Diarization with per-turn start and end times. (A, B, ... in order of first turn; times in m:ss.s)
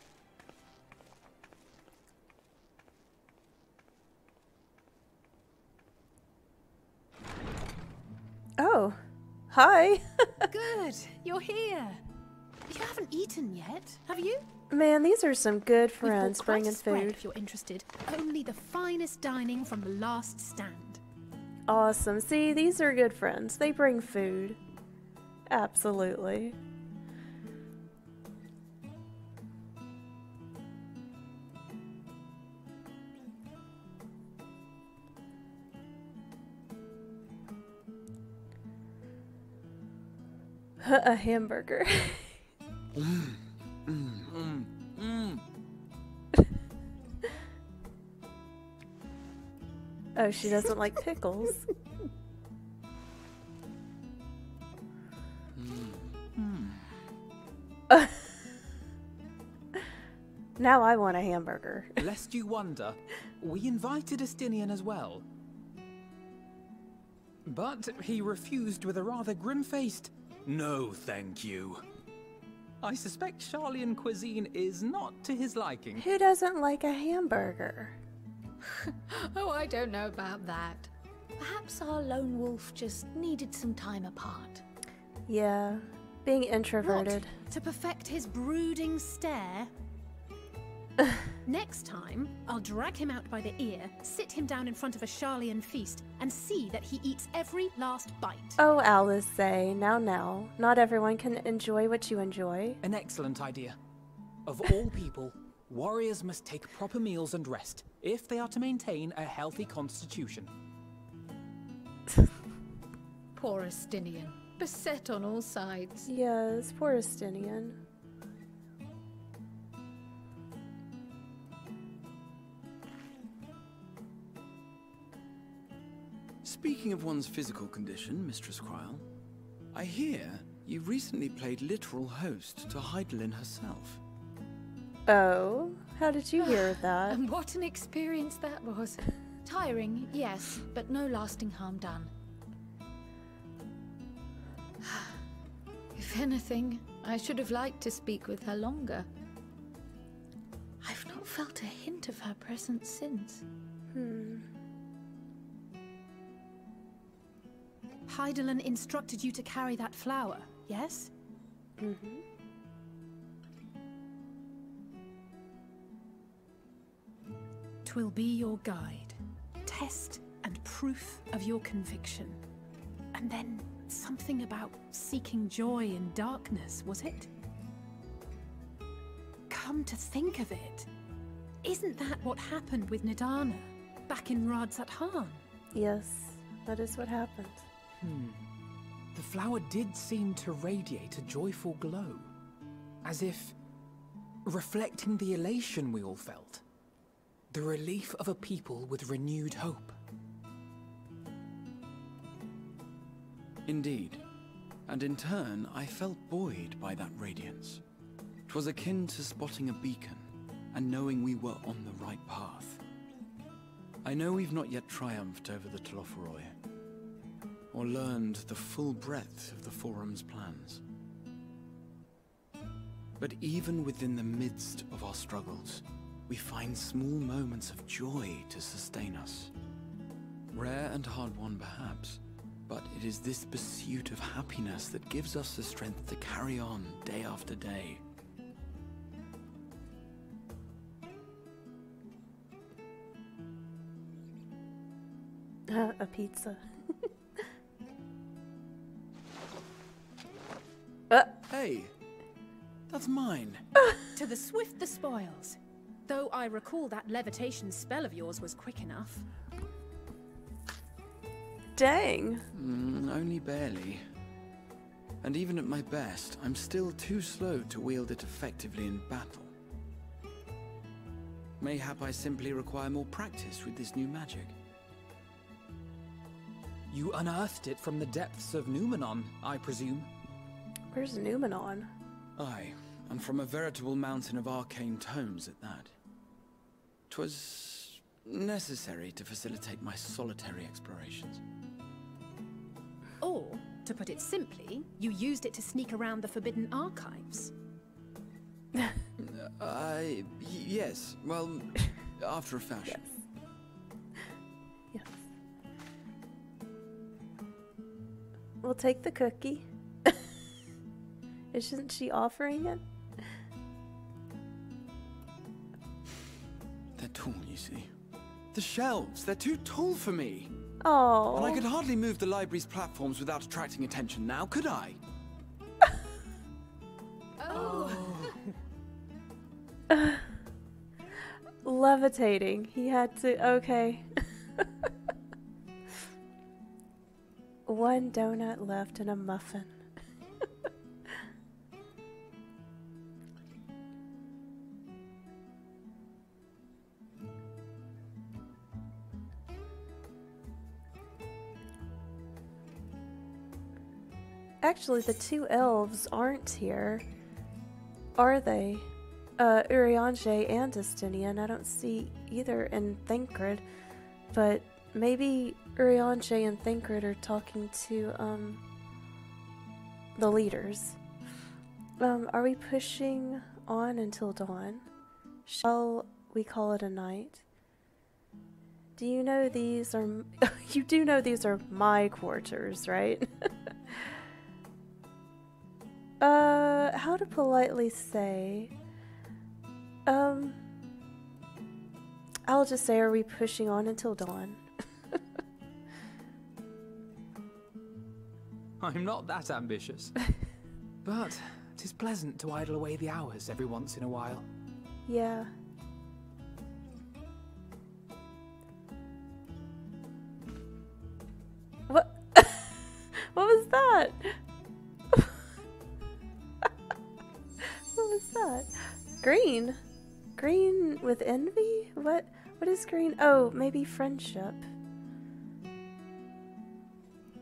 0:08.6-0:09.0 A
0:09.5-0:10.3 A
0:10.4-0:12.0 B
0:12.7-0:14.4 B
0:14.7-0:17.2 A
0:16.0-0:21.0 B
0:21.7-0:24.6 A
0:25.5-0:26.6 A
0:40.8-0:42.4 A
0:42.9-0:45.4 C
0:50.2-0:51.7 A
0:55.5-0:56.8 C
1:00.6-1:02.0 A
1:02.0-1:05.2 D
1:07.4-1:11.8 D
1:12.8-1:16.0 D
1:15.9-1:18.0 A
1:18.9-1:24.6 E
1:25.3-1:27.3 A
1:26.8-1:29.7 B
1:31.4-1:38.6 B
1:38.6-1:42.8 A
1:42.8-1:43.8 D
1:44.4-1:50.5 D
1:53.3-1:56.1 E
1:56.1-1:57.8 A
2:06.4-2:09.0 C
2:09.7-2:14.0 C
2:15.1-2:17.2 A
2:16.4-2:22.1 E
2:24.9-2:25.1 E
2:25.9-2:29.1 E
2:30.8-2:33.4 E
2:33.9-2:34.4 A
2:38.0-2:41.1 B
2:41.8-2:42.2 A
2:47.8-2:52.4 B
2:53.1-2:57.3 B
2:59.5-3:00.9 B
3:01.6-3:05.4 B
3:05.7-3:07.6 A
3:08.0-3:08.4 D
3:09.1-3:12.3 D
3:13.0-3:13.5 D
3:14.4-3:16.6 D
3:17.5-3:20.0 D
3:23.6-3:24.2 C
3:24.9-3:27.8 C
3:28.5-3:32.8 C
3:34.0-3:36.5 C
3:37.7-3:40.8 C
3:43.2-3:49.5 C
3:50.5-3:58.0 C
4:05.7-4:06.6 A
4:11.5-4:11.9 C
4:12.9-4:13.7 C
4:14.1-4:19.3 B
4:21.8-4:22.4 A
4:22.5-4:24.0 C
4:25.2-4:29.5 C
4:31.6-4:34.5 C
4:36.9-4:40.1 D
4:40.9-4:41.9 A
4:42.4-4:45.9 C
4:47.1-4:51.4 C
4:53.2-4:57.5 B
4:59.2-5:03.1 C
5:04.9-5:05.2 A
5:08.6-5:10.1 A
5:11.5-5:12.8 A
5:17.0-5:17.9 C
5:18.5-5:20.5 C
5:20.8-5:21.6 A
5:21.3-5:25.0 C
5:27.4-5:28.3 E
5:27.5-5:28.4 D
5:29.9-5:30.2 A
5:31.6-5:34.0 A
5:37.7-5:39.8 A
5:54.6-5:57.0 A
5:58.2-5:58.9 A
5:59.4-6:03.6 A
6:04.3-6:08.6 A
6:10.2-6:11.0 A
6:12.0-6:14.9 A
6:15.5-6:17.4 A
6:19.0-6:24.0 A
6:26.2-6:28.7 A
6:30.1-6:30.6 A
6:32.5-6:34.6 A
6:38.8-6:40.1 D
6:41.0-6:44.4 D
6:45.1-6:45.5 A
6:51.9-6:54.4 A
6:57.9-6:59.8 A
7:00.4-7:04.6 A